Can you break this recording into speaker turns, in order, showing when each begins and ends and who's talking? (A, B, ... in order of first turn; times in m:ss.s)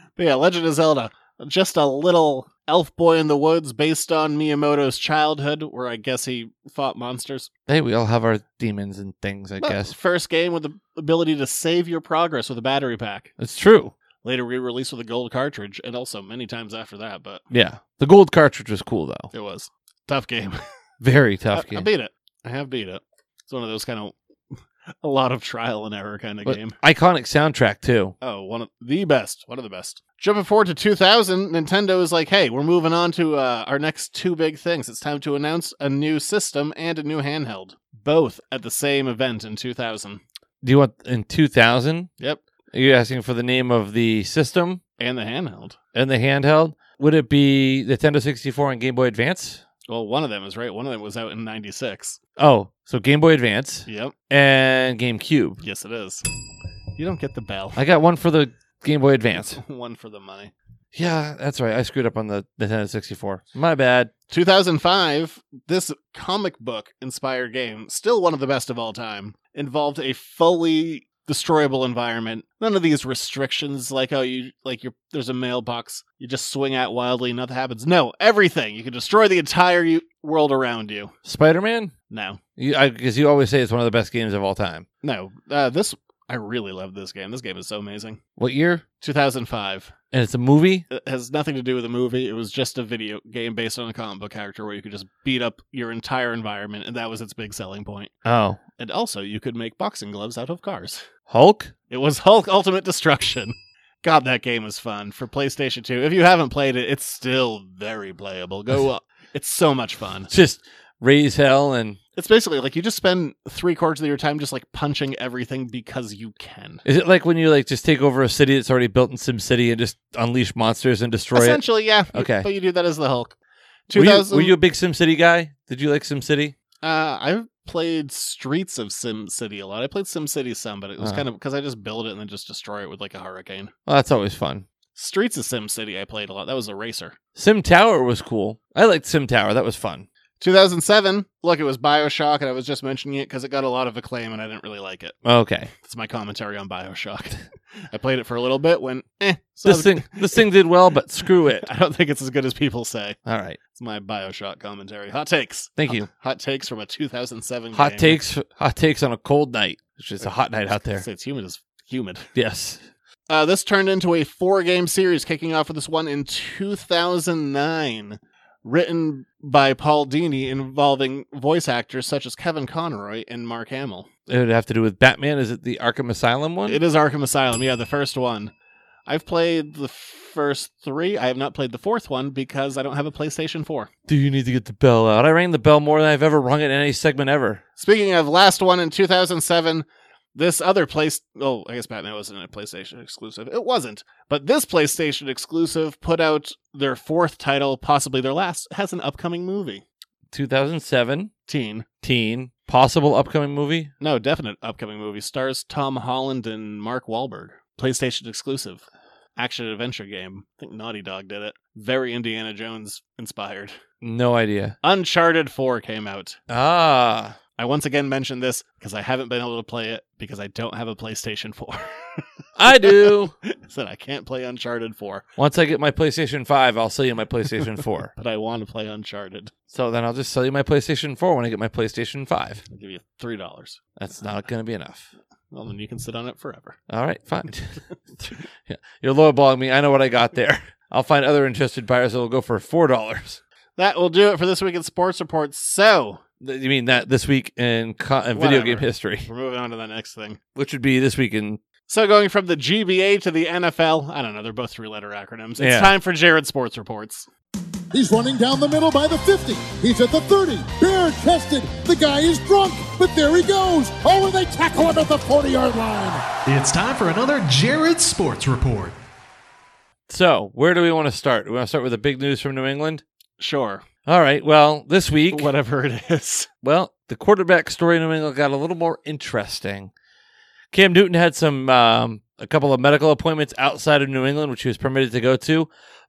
0:00.2-0:07.5 A
0:07.7-0:10.0 B
0:09.6-0:13.3 A
0:13.4-0:13.9 B
0:14.2-0:17.4 A
0:17.5-0:19.3 B
0:19.3-0:20.6 A
0:21.0-0:21.9 B
0:21.5-0:24.1 A
0:25.0-0:26.8 A
0:26.4-0:28.1 B
0:28.2-0:40.2 A
0:40.6-0:42.1 B
0:42.7-0:44.8 B
0:45.0-0:45.8 A
0:45.9-0:49.6 B
0:49.9-0:52.2 A
0:52.4-0:55.6 B
0:53.9-0:54.1 A
0:55.6-0:56.2 A
0:57.0-0:57.8 A
0:57.8-0:59.6 B
0:59.4-1:00.5 A
1:00.9-1:04.1 B
1:04.3-1:21.1 A
1:21.2-1:21.9 B
1:22.1-1:22.4 A
1:22.6-1:24.8 B
1:25.0-1:28.2 A
1:28.4-1:28.8 B
1:29.0-1:29.9 A
1:30.1-1:30.8 B
1:30.9-1:38.1 A
1:38.2-1:38.6 B
1:38.8-1:41.0 A
1:41.3-1:41.7 B
1:41.9-1:50.3 A
1:50.3-1:52.0 B
1:52.2-1:56.8 A
1:56.8-2:02.5 B
2:01.3-2:03.3 A
2:03.9-2:04.5 A
2:03.9-2:06.5 B
2:06.8-2:13.7 A
2:11.0-2:11.2 B
2:13.8-2:14.6 B
2:14.9-2:17.2 A
2:17.4-2:20.1 B
2:20.4-2:25.1 A
2:25.2-2:25.7 B
2:25.7-2:30.4 A
2:29.6-2:31.7 B
2:31.6-2:33.2 A
2:33.2-2:33.6 B
2:33.7-2:38.2 A
2:35.8-2:36.1 B
2:37.7-2:41.0 B
2:41.0-2:42.3 A
2:42.3-2:42.8 B
2:43.3-2:54.1 A
2:54.3-2:56.8 B
2:56.7-2:58.5 A
2:59.1-3:03.9 A
3:04.1-3:07.6 B
3:07.8-3:19.8 A
3:20.3-3:21.3 B
3:21.5-3:21.8 A
3:22.0-3:23.9 B
3:24.0-3:28.8 A
3:29.4-3:33.8 A
3:34.0-3:34.8 B
3:34.8-3:36.4 A
3:36.5-3:37.4 B
3:37.6-3:45.2 A
3:42.6-3:43.3 B
3:45.4-3:48.1 B
3:48.2-3:49.5 A
3:49.7-3:52.6 B
3:52.7-3:53.8 A
3:54.0-3:55.1 B
3:55.5-3:56.8 A
3:56.9-4:03.4 B
4:03.8-4:06.2 A
4:06.4-4:09.3 B
4:08.3-4:10.4 A
4:10.6-4:11.6 B
4:11.9-4:17.3 A
4:15.6-4:15.9 B
4:17.9-4:26.2 C
4:26.4-4:29.0 D
4:30.1-4:33.0 B
4:33.4-4:33.8 A
4:34.0-4:35.5 B
4:35.3-4:36.5 A
4:36.6-4:39.9 B
4:40.7-4:45.7 B